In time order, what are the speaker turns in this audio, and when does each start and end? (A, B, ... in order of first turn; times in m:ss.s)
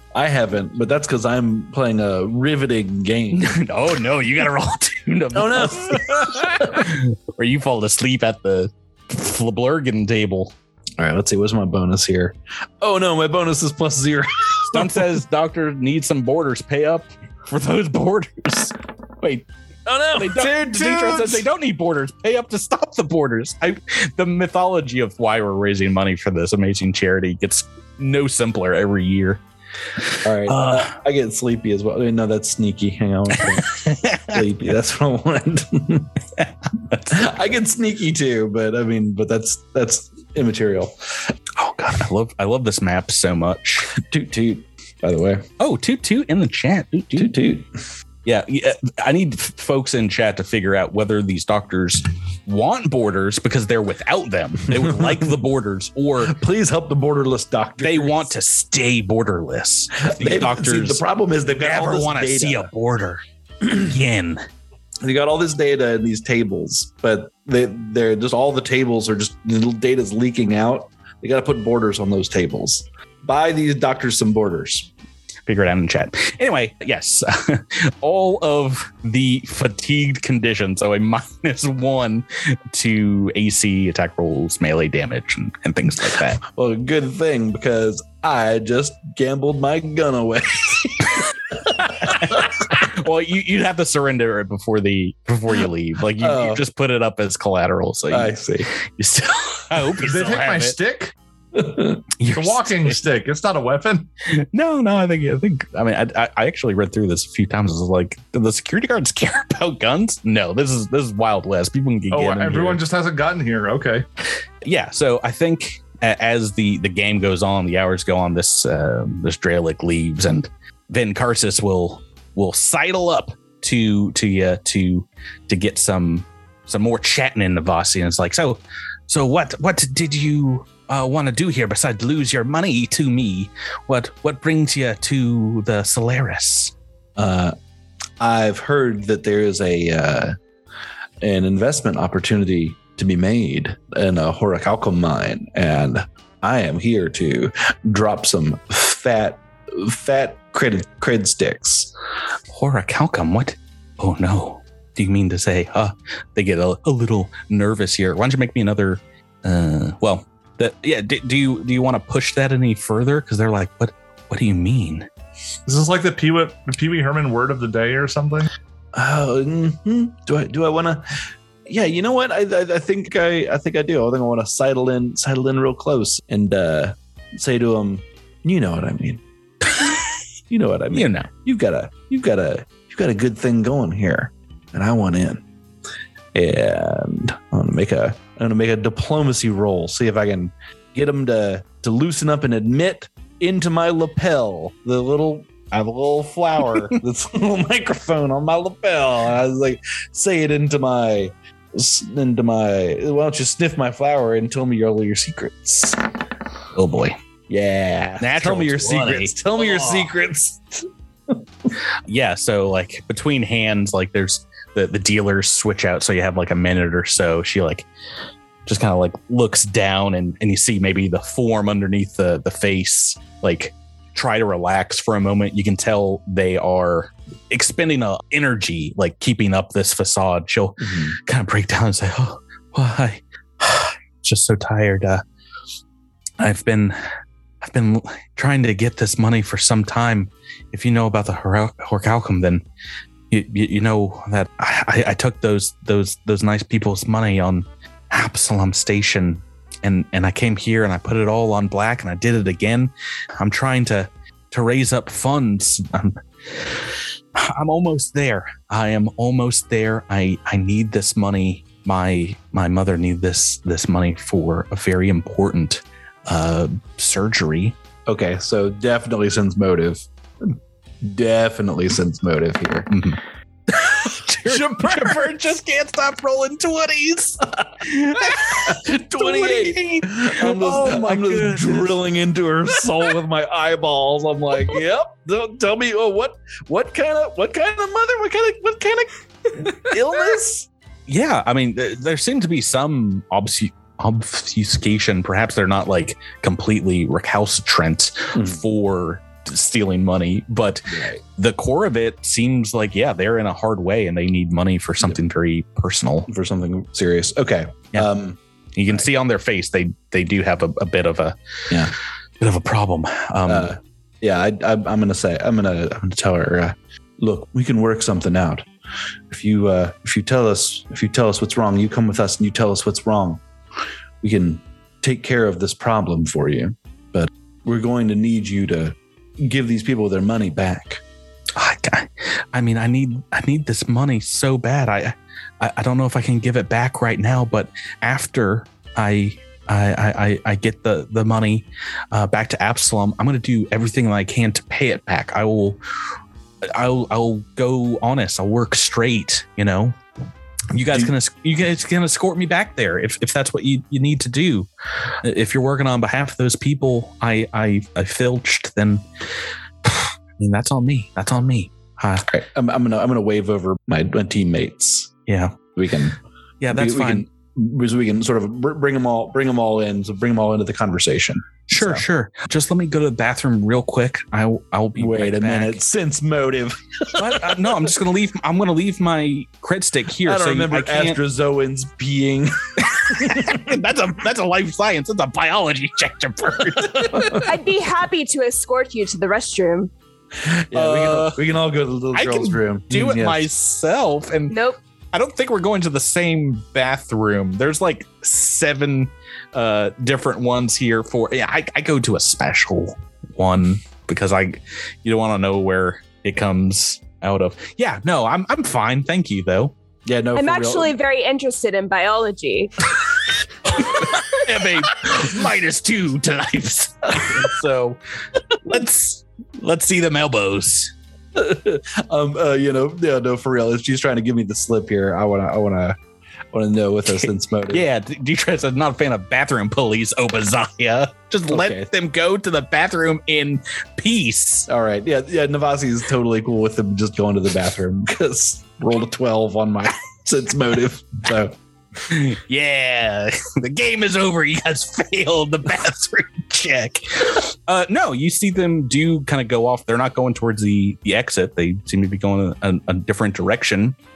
0:00.1-0:03.5 A
0:03.3-0:10.5 B
0:05.3-0:06.8 A
0:11.0-0:15.2 A
0:14.7-0:19.5 B
0:19.8-0:21.5 A
0:20.1-0:29.4 B
0:30.0-0:31.0 B
0:30.2-0:36.1 A
0:33.7-0:34.4 B
0:36.4-0:37.3 B
0:37.1-0:41.3 A
0:41.6-0:43.9 B
0:43.9-0:45.4 A
0:45.6-0:47.3 B
0:47.1-0:47.7 A
0:48.2-0:56.4 B
0:54.7-0:55.3 A
0:56.2-0:58.3 A
0:57.8-1:04.4 B
1:00.0-1:02.7 A
1:05.0-1:14.9 A
1:15.5-1:26.4 B
1:26.4-1:32.7 A
1:32.0-1:40.8 B
1:36.2-1:36.6 A
1:38.1-1:38.7 A
1:39.9-1:41.1 C
1:41.5-1:42.0 A
1:42.2-1:43.0 B
1:42.3-1:44.1 C
1:44.3-1:52.8 B
1:52.1-1:54.0 C
1:54.6-2:16.7 B
2:17.2-2:17.5 A
2:18.2-2:20.4 A
2:21.2-2:31.9 A
2:32.5-2:45.1 B
2:45.6-2:48.5 C
2:48.9-2:51.1 A
2:51.6-2:59.2 A
3:00.5-3:05.4 A
3:00.9-3:01.3 B
3:06.3-3:26.0 A
3:26.7-3:27.2 B
3:27.5-3:31.4 A
3:28.2-3:29.4 B
3:32.1-3:37.9 B
3:38.6-3:55.2 B
3:50.8-3:51.2 A
3:56.4-3:57.0 B
3:57.6-4:02.6 B
4:03.3-4:27.8 B
4:28.0-4:32.9 A
4:32.9-4:33.2 B
4:33.7-4:42.0 B
4:34.4-4:35.2 A
4:38.3-4:50.7 A
4:51.1-5:06.3 B
4:58.3-4:58.6 A
5:00.9-5:01.2 A
5:06.3-5:08.4 A
5:08.8-5:11.4 B
5:12.4-5:13.7 B
5:13.5-5:18.7 A
5:19.3-5:23.4 A
5:24.2-5:31.0 A
5:31.5-5:45.8 B
5:46.6-5:50.0 B
5:50.7-5:54.7 B
5:55.2-5:59.0 B
5:59.8-6:02.3 B
6:02.3-6:05.1 A
6:05.3-6:05.6 B
6:05.7-6:06.2 A
6:06.6-6:07.2 B
6:06.7-6:12.0 A
6:11.7-6:15.8 B
6:15.0-6:17.8 A
6:17.1-6:21.2 B
6:20.2-6:23.6 A
6:23.0-6:27.5 B
6:27.1-6:27.4 A
6:27.4-6:29.9 D
6:30.5-6:33.4 A
6:30.7-6:31.4 B
6:32.1-6:34.6 B
6:34.5-6:34.8 D
6:35.1-6:49.7 B
6:50.0-6:50.9 A
6:50.4-6:52.7 D
6:53.7-6:58.0 B
6:57.2-6:57.4 A
6:58.6-7:00.9 B
7:01.3-7:06.0 A
7:06.5-7:07.8 A
7:07.1-7:14.7 B
7:11.5-7:11.9 A
7:14.7-7:21.6 A
7:22.1-7:34.0 B